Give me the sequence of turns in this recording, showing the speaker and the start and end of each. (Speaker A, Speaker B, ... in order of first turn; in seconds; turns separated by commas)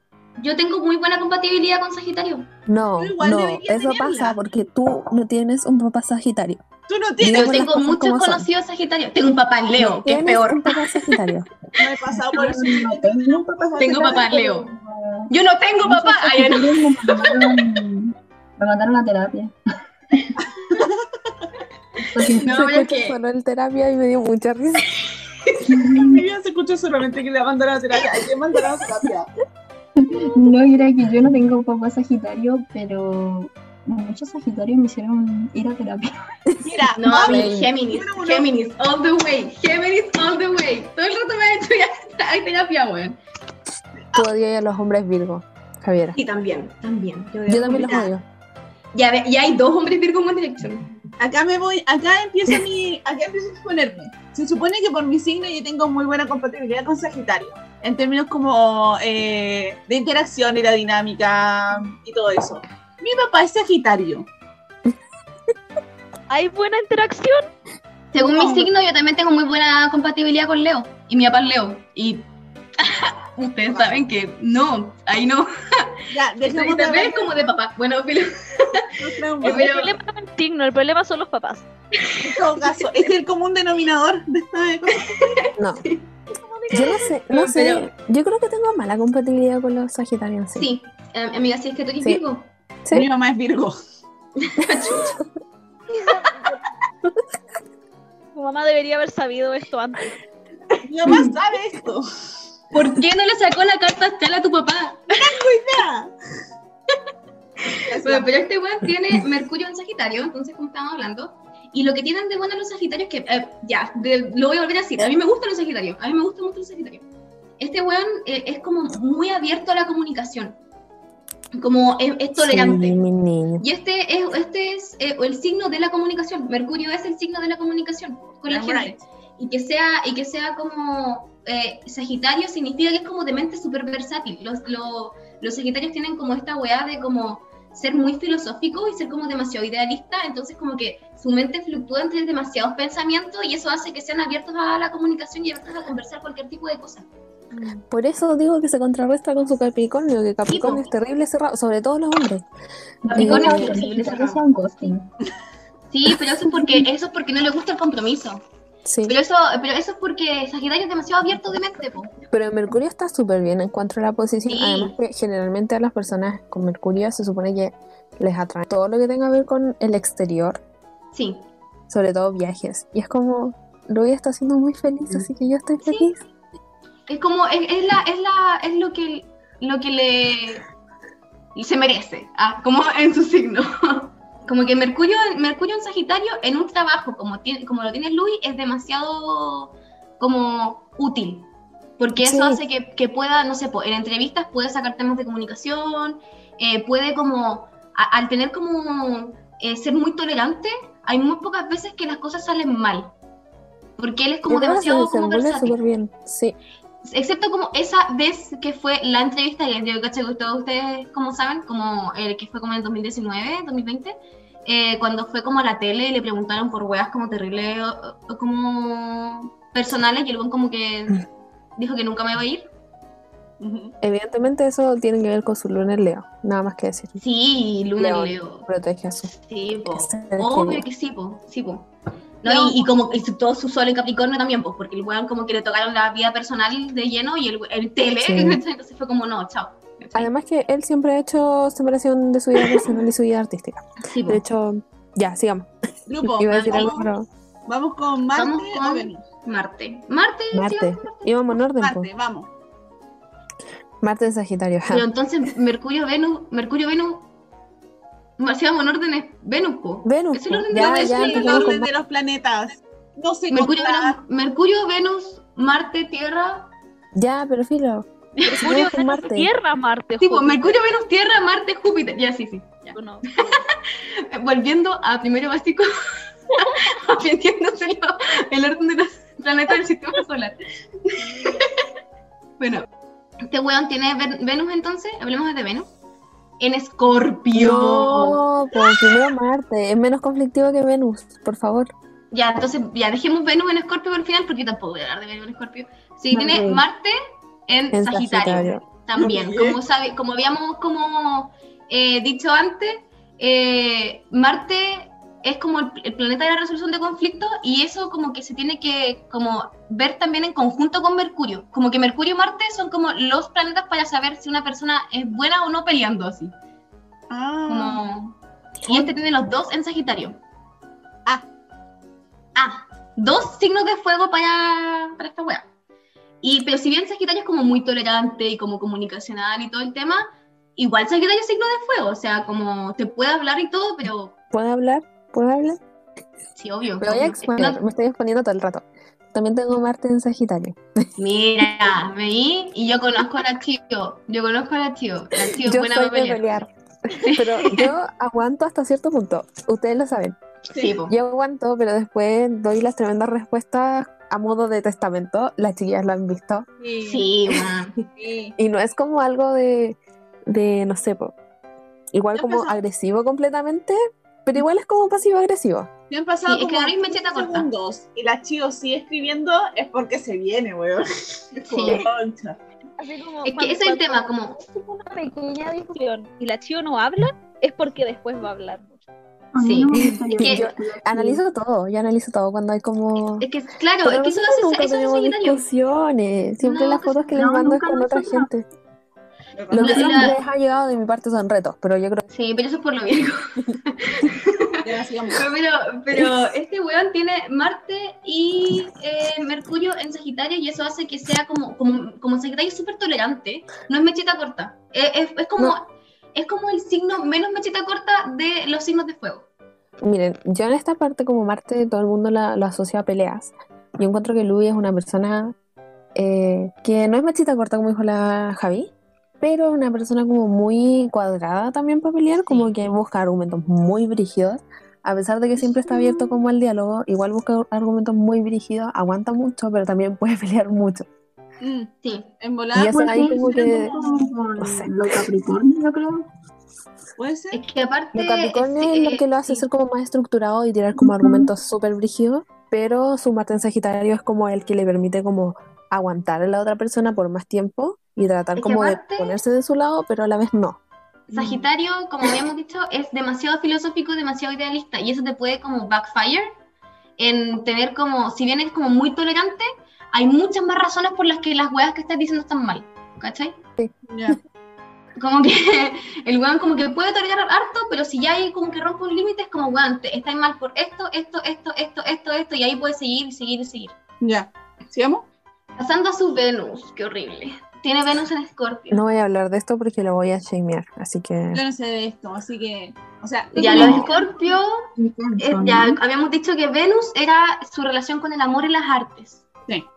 Speaker A: 0.4-2.5, Speaker B: 2.7-6.6, Speaker C: 3.0-4.4, Speaker C: 6.9-7.7, Speaker B: 7.2-8.5, Speaker A: 7.3-11.1, Speaker B: 9.8-11.5, Speaker C: 11.8-14.3, Speaker D: 12.3-15.3, Speaker A: 13.8-14.7, Speaker A: 15.3-17.5, Speaker D: 15.8-19.5, Speaker C: 20.7-21.1, Speaker D: 22.1-22.5, Speaker A: 22.1-23.2, Speaker B: 22.4-24.9, Speaker A: 25.4-25.7, Speaker D: 25.7-26.2, Speaker C: 25.9-29.3, Speaker D: 30.0-36.1, Speaker C: 36.6-38.5, Speaker A: 36.9-43.2, Speaker B: 37.1-37.7, Speaker B: 44.1-46.2, Speaker A: 46.1-48.1, Speaker B: 47.5-48.2, Speaker A: 48.9-50.9, Speaker C: 51.2-64.3, Speaker E: 66.3-67.5, Speaker A: 68.1-72.3, Speaker C: 68.2-68.7, Speaker A: 72.8-80.0, Speaker C: 73.7-74.0, Speaker C: 76.1-77.3, Speaker C: 79.0-79.7, Speaker E: 79.4-81.7, Speaker C: 82.2-85.4, Speaker A: 84.9-86.1, Speaker B: 85.6-85.8, Speaker C: 86.4-86.9, Speaker B: 86.7-90.7, Speaker A: 86.7-87.9, Speaker A: 90.5-92.5, Speaker C: 92.9-93.8, Speaker A: 94.4-95.2, Speaker B: 94.6-95.0, Speaker E: 96.2-96.5, Speaker E: 98.3-100.2, Speaker C: 100.8-102.0, Speaker A: 101.0-101.4, Speaker A: 102.7-105.3, Speaker C: 105.1-106.1, Speaker A: 107.7-117.0, Speaker C: 107.8-108.3, Speaker A: 117.6-120.6, Speaker A: 121.5-123.0, Speaker B: 122.4-123.6, Speaker A: 123.6-147.1, Speaker C: 128.5-129.0, Speaker C: 147.5-147.8, Speaker B: 147.9-152.4, Speaker A: 150.5-150.9, Speaker D: 153.0-155.1, Speaker B: 153.1-153.8, Speaker A: 153.1-154.4, Speaker A: 155.9-158.4, Speaker B: 158.8-159.2, Speaker A: 159.1-162.1, Speaker B: 162.3-170.6, Speaker A: 164.4-164.9, Speaker A: 171.1-171.5, Speaker B: 171.9-176.2, Speaker A: 175.8-176.1, Speaker A: 177.1-180.6, Speaker A: 181.5-203.1, Speaker B: 192.2-192.6, Speaker A: 204.0-205.8, Speaker B: 204.5-206.6, Speaker A: 207.0-221.2, Speaker A: 221.8-222.7, Speaker C: 223.6-223.9, Speaker B: 224.0-227.2, Speaker A: 227.2-228.7, Speaker B: 228.0-229.3, Speaker A: 229.5-231.9, Speaker B: 229.9-230.9, Speaker A: 232.4-240.3, Speaker B: 232.4-232.8, Speaker B: 238.2-238.6, Speaker B: 240.1-245.7, Speaker A: 244.0-244.4, Speaker C: 246.1-247.1, Speaker B: 246.2-247.3, Speaker A: 246.5-247.1, Speaker C: 247.7-249.2, Speaker A: 248.3-251.3, Speaker B: 250.5-252.1, Speaker C: 251.8-252.5, Speaker B: 254.0-255.1, Speaker A: 254.9-257.3, Speaker A: 258.4-261.8, Speaker B: 260.0-261.9, Speaker C: 260.7-264.2, Speaker A: 263.5-266.7, Speaker B: 267.1-269.5, Speaker E: 268.6-270.8, Speaker A: 270.2-273.6, Speaker E: 272.9-273.6, Speaker A: 274.3-275.9, Speaker A: 276.5-281.7, Speaker A: 282.6-282.9, Speaker A: 283.4-285.9, Speaker A: 286.6-289.0, Speaker B: 287.5-291.9, Speaker A: 292.3-297.1, Speaker D: 296.3-296.8, Speaker A: 297.7-316.5, Speaker B: 297.9-298.8, Speaker C: 299.1-299.8, Speaker C: 317.3-318.0, Speaker A: 317.7-318.3, Speaker A: 318.9-320.4, Speaker A: 322.6-325.7, Speaker A: 326.4-334.3, Speaker B: 334.5-335.8, Speaker A: 336.5-337.8, Speaker B: 337.0-340.8, Speaker A: 341.2-346.4, Speaker B: 345.6-350.4, Speaker A: 347.1-347.9, Speaker A: 350.7-351.2, Speaker B: 351.1-356.7, Speaker C: 356.8-357.4, Speaker A: 357.0-358.0, Speaker C: 358.2-358.6, Speaker B: 358.6-361.3, Speaker B: 362.1-365.9, Speaker C: 362.3-362.8, Speaker C: 366.1-372.6, Speaker A: 366.4-367.7, Speaker A: 371.7-372.1, Speaker E: 373.0-379.0, Speaker A: 373.4-374.6, Speaker D: 379.5-381.4, Speaker A: 379.6-380.7, Speaker B: 380.2-383.5, Speaker A: 383.4-385.6, Speaker B: 384.0-388.6, Speaker A: 386.6-387.3, Speaker D: 387.3-388.5, Speaker C: 389.5-389.9, Speaker B: 389.7-392.2, Speaker A: 389.8-390.4, Speaker D: 389.8-390.3, Speaker A: 392.3-394.8, Speaker C: 394.8-395.4, Speaker A: 395.4-409.5, Speaker B: 396.1-396.4, Speaker B: 410.0-415.5, Speaker B: 416.1-431.1, Speaker A: 422.4-422.7, Speaker C: 431.6-434.3, Speaker A: 432.0-432.3, Speaker B: 432.7-433.9, Speaker D: 432.8-436.3, Speaker B: 434.6-435.2, Speaker C: 437.2-437.6, Speaker A: 437.5-439.7, Speaker B: 438.1-450.8, Speaker D: 441.0-441.5, Speaker A: 448.6-449.4, Speaker A: 451.3-456.5, Speaker A: 457.2-463.6, Speaker C: 464.1-464.4, Speaker A: 465.2-473.9, Speaker C: 474.2-475.2, Speaker A: 475.8-479.0, Speaker B: 478.9-481.6, Speaker C: 481.5-484.1, Speaker D: 483.5-484.3, Speaker A: 483.5-484.9, Speaker D: 485.0-486.0, Speaker A: 485.4-489.4